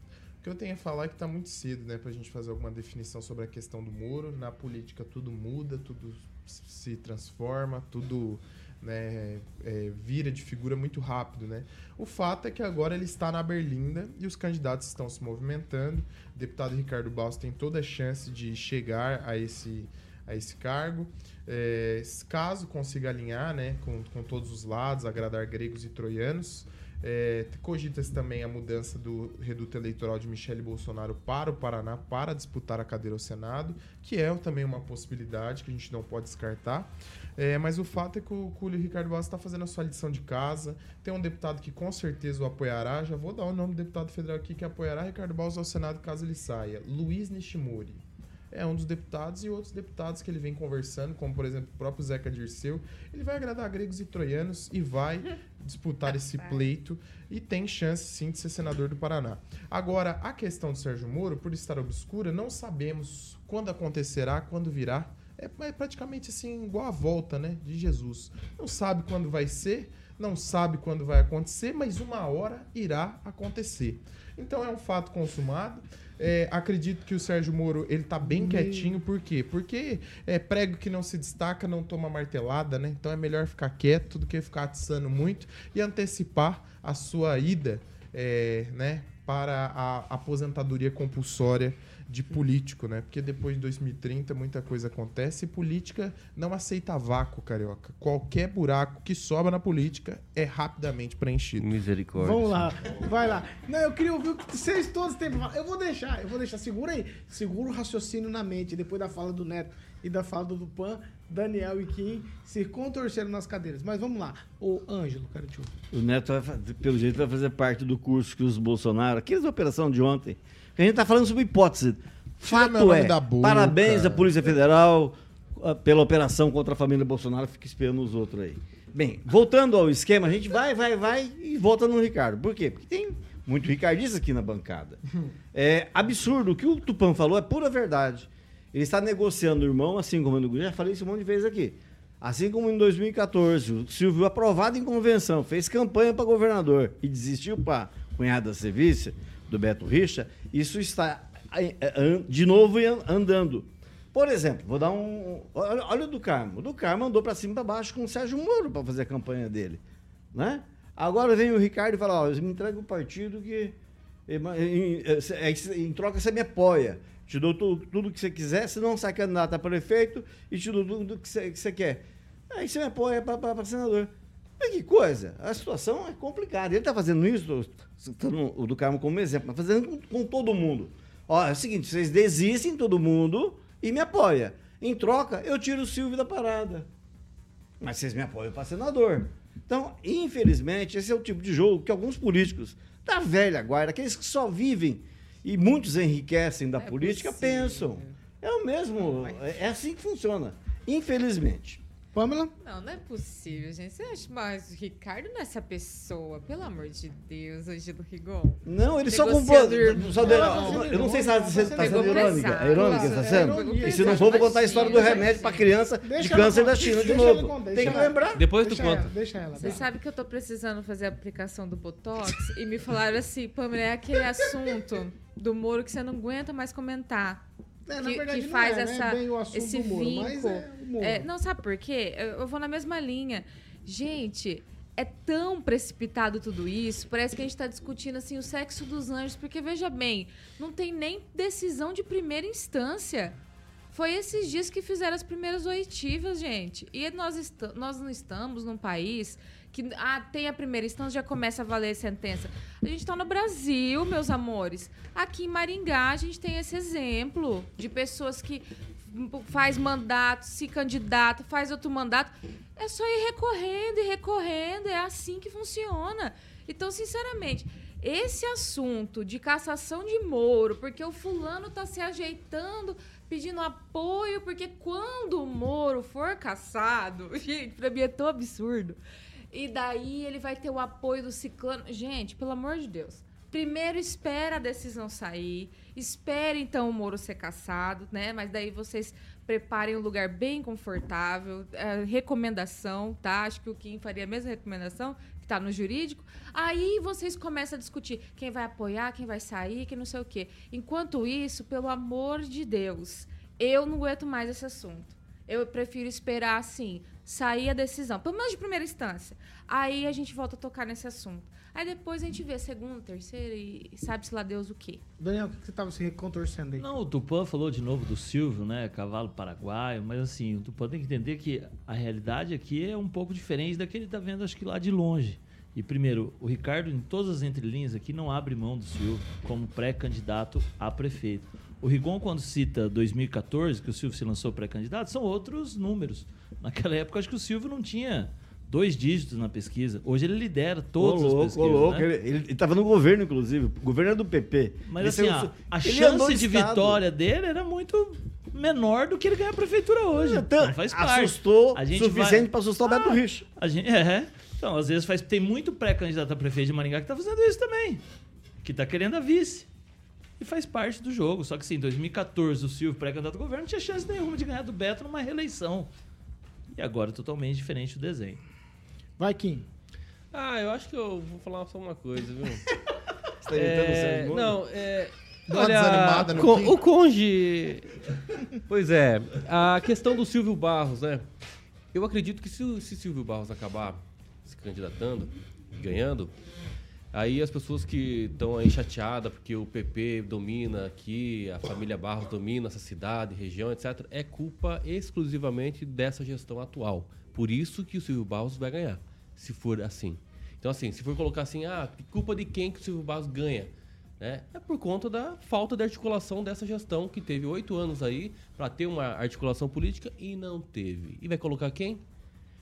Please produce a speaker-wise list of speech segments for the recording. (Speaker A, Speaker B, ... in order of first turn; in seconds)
Speaker A: 0.4-101.7, 122.4-124.5, 375.5-376.8
Speaker B: 78.2-79.0, 102.2-115.7, 202.1-202.5, 210.2-215.2, 216.0-219.9, 227.9-231.3, 315.2-316.9, 369.2-369.7
Speaker C: 101.6-102.7, 217.8-219.1, 370.3-372.6, 373.5-377.9, 378.7-381.2, 381.9-386.3, 387.1-412.0
Speaker D: 115.9-135.0, 135.5-159.8, 160.3-186.9, 187.8-201.8, 208.7-218.4, 341.0-347.0, 350.1-353.5, 373.4-374.6
Speaker E: 196.8-198.2, 199.1-199.4, 202.6-211.1, 211.7-215.7, 219.5-227.4, 228.0-243.4, 243.9-279.0, 279.5-315.0
Speaker F: 316.8-342.1, 344.9-358.0, 358.6-359.7, 360.4-365.9, 366.7-368.4